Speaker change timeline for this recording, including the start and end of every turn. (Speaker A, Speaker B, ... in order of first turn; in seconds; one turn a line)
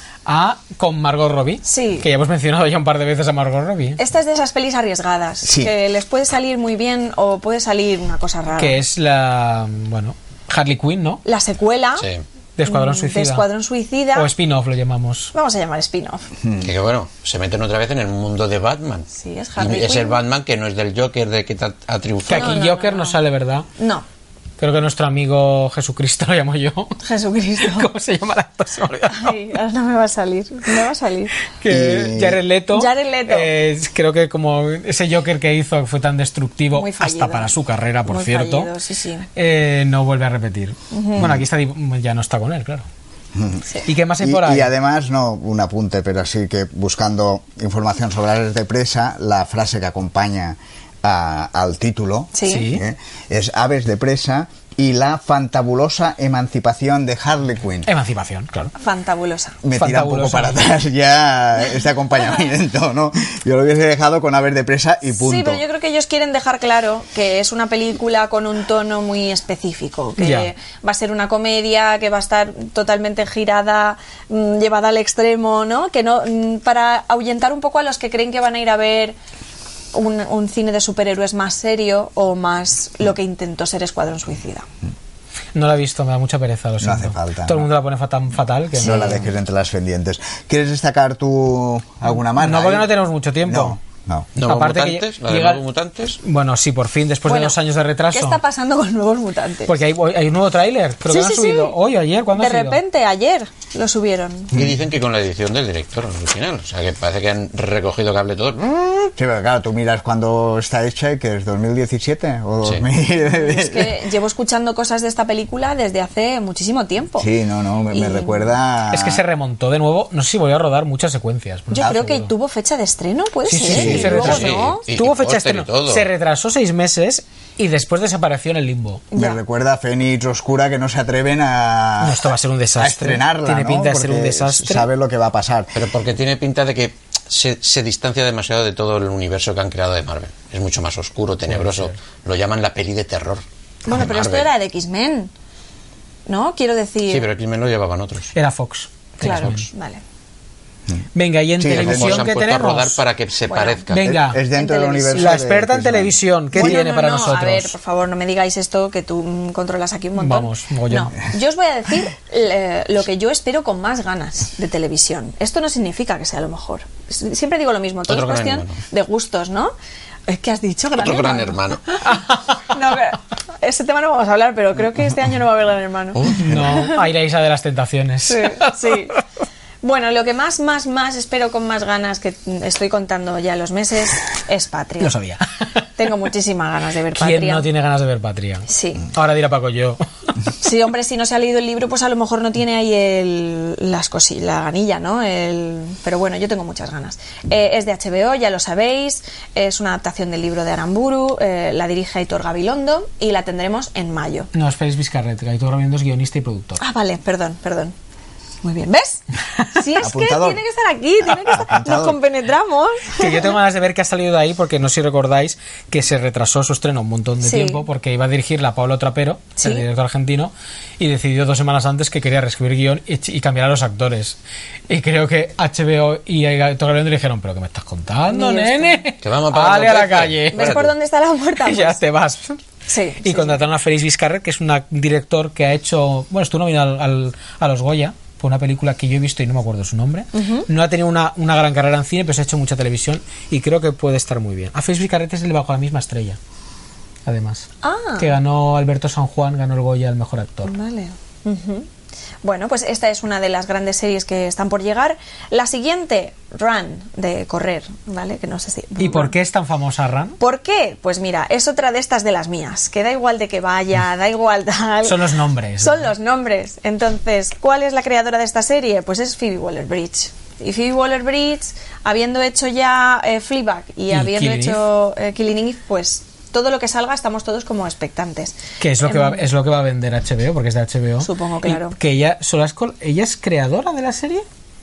Speaker A: 0.2-4.0
Speaker B: 1.6-2.0
Speaker B: 4.0-8.8
Speaker C: 5.4-5.7
Speaker A: 8.5-11.2
Speaker B: 11.2-12.1
Speaker D: 12.0-12.2
Speaker A: 12.6-13.4
Speaker B: 12.6-14.3
Speaker A: 14.1-15.3
Speaker B: 15.3-16.2
Speaker D: 16.6-22.6
Speaker B: 19.1-20.2
Speaker A: 22.3-23.7
Speaker B: 22.3-23.2
Speaker B: 23.8-24.0
Speaker A: 24.6-27.0
Speaker B: 27.0-27.9
Speaker A: 27.6-29.4
Speaker B: 29.1-31.3
Speaker A: 31.5-38.7
Speaker C: 31.7-32.4
Speaker B: 32.7-33.5
Speaker B: 36.7-39.3
Speaker A: 39.3-42.9
Speaker B: 40.9-41.3
Speaker C: 41.2-41.4
Speaker C: 43.3-43.6
Speaker A: 43.9-44.7
Speaker C: 44.2-57.9
Speaker B: 52.3-52.7
Speaker A: 52.4-52.8
Speaker A: 57.8-58.7
Speaker B: 58.8-59.6
Speaker C: 59.6-65.6
Speaker A: 59.8-60.6
Speaker B: 65.2-79.2
Speaker A: 70.2-70.5
Speaker B: 79.9-84.7
Speaker A: 85.5-89.3
Speaker C: 86.8-87.7
Speaker C: 88.8-94.3
Speaker A: 92.3-93.8
Speaker D: 94.3-96.2
Speaker A: 94.4-95.6
Speaker A: 96.2-98.4
Speaker B: 97.2-97.6
Speaker B: 98.1-99.7
Speaker A: 99.7-102.8
Speaker B: 101.1-101.7
Speaker B: 102.3-104.5
Speaker C: 104.5-104.8
Speaker D: 104.5-108.9
Speaker C: 109.2-114.0
Speaker B: 113.2-117.3
Speaker C: 117.2-119.2
Speaker B: 117.9-118.5
Speaker A: 118.9-122.3
Speaker B: 121.7-124.8
Speaker A: 123.4-129.0
Speaker C: 123.6-124.5
Speaker D: 123.7-126.1
Speaker B: 129.1-129.4
Speaker C: 129.1-135.8
Speaker A: 132.0-134.9
Speaker D: 135.7-144.5
Speaker B: 143.8-145.3
Speaker B: 146.3-147.3
Speaker D: 147.1-148.3
Speaker A: 148.3-149.7
Speaker B: 149.2-150.0
Speaker A: 151.1-153.0
Speaker C: 151.6-152.3
Speaker D: 151.7-154.1
Speaker B: 153.5-153.8
Speaker A: 153.9-154.4
Speaker C: 154.0-156.2
Speaker B: 154.5-155.4
Speaker A: 155.1-157.7
Speaker B: 156.5-169.7
Speaker A: 160.2-161.1
Speaker D: 168.1-168.8
Speaker B: 170.3-177.0
Speaker D: 170.9-172.0
Speaker A: 172.1-172.6
Speaker D: 176.1-176.5
Speaker A: 176.3-179.1
Speaker B: 178.3-179.2
Speaker B: 179.8-185.1
Speaker A: 185.0-185.9
Speaker B: 186.0-187.7
Speaker A: 187.1-190.0
Speaker B: 188.7-189.1
Speaker B: 190.6-204.5
Speaker A: 204.5-206.8
Speaker B: 206.8-207.9
Speaker B: 208.6-213.5
Speaker C: 210.0-210.6
Speaker C: 211.5-212.2
Speaker A: 213.2-224.4
Speaker B: 217.4-217.8
Speaker B: 219.6-219.8
Speaker A: 224.9-230.8
Speaker B: 228.3-229.0
Speaker D: 229.2-230.9
Speaker B: 230.5-232.0
Speaker A: 231.6-232.6
Speaker B: 232.9-233.6
Speaker A: 233.2-246.4
Speaker B: 240.3-240.7
Speaker A: 247.2-250.7
Speaker B: 247.8-248.3
Speaker B: 250.6-251.9
Speaker B: 252.4-259.3
Speaker A: 259.0-260.4
Speaker B: 260.4-279.4
Speaker A: 265.0-266.1
Speaker A: 274.1-274.8
Speaker A: 278.8-284.4
Speaker B: 281.2-281.9